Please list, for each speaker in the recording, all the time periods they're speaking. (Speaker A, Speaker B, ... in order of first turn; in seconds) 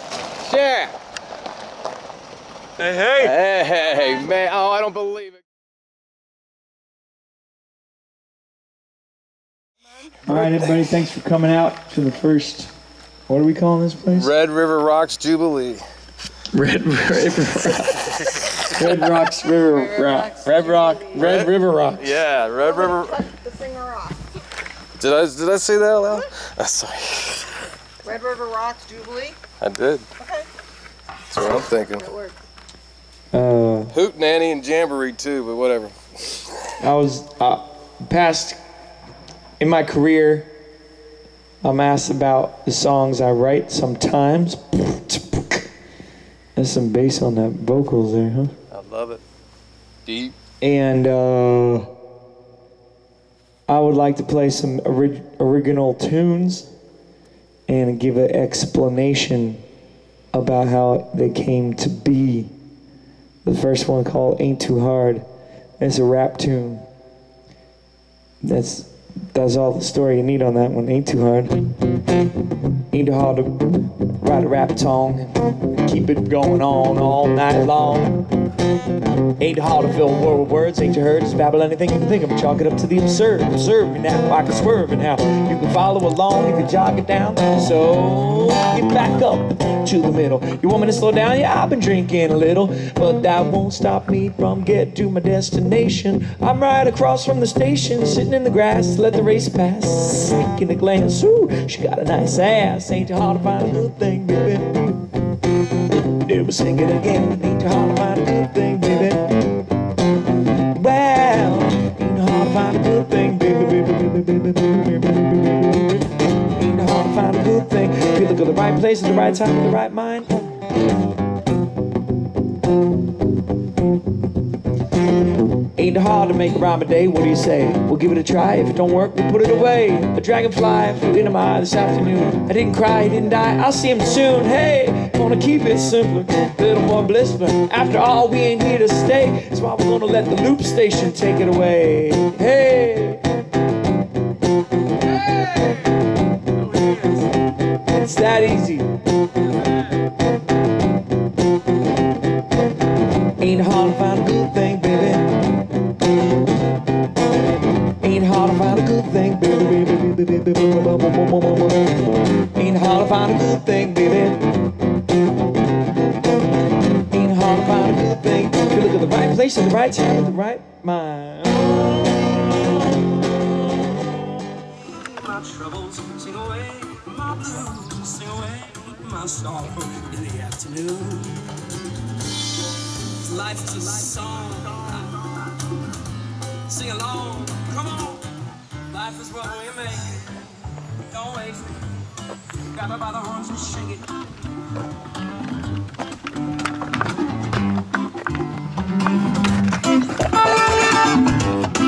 Speaker A: 0.4-0.9, 2.8-5.4, 14.1-15.8, 21.1-23.2, 25.0-27.4, 29.6-30.1, 31.3-32.1, 33.9-35.9, 48.7-49.2, 50.0-50.3
Speaker B: 10.2-12.7, 13.3-14.3, 16.5-22.1, 33.3-33.9, 36.8-38.6, 39.6-40.5, 41.6-45.6, 46.5-48.5, 50.6-51.9, 53.7-56.7, 57.7-59.6, 60.3-62.5, 63.4-65.2, 65.8-66.8, 68.4-71.6, 72.9-78.3, 79.4-105.1, 105.9-109.6, 110.7-120.5, 125.7-143.2, 147.8-148.9, 153.4-155.3, 158.0-164.4, 167.1-171.8
Speaker C: 20.0-21.1, 22.6-24.2, 28.0-29.4, 30.2-30.5, 32.0-32.3
Speaker D: 174.9-181.7, 183.2-185.5, 186.7-188.3, 188.9-192.0, 192.6-194.2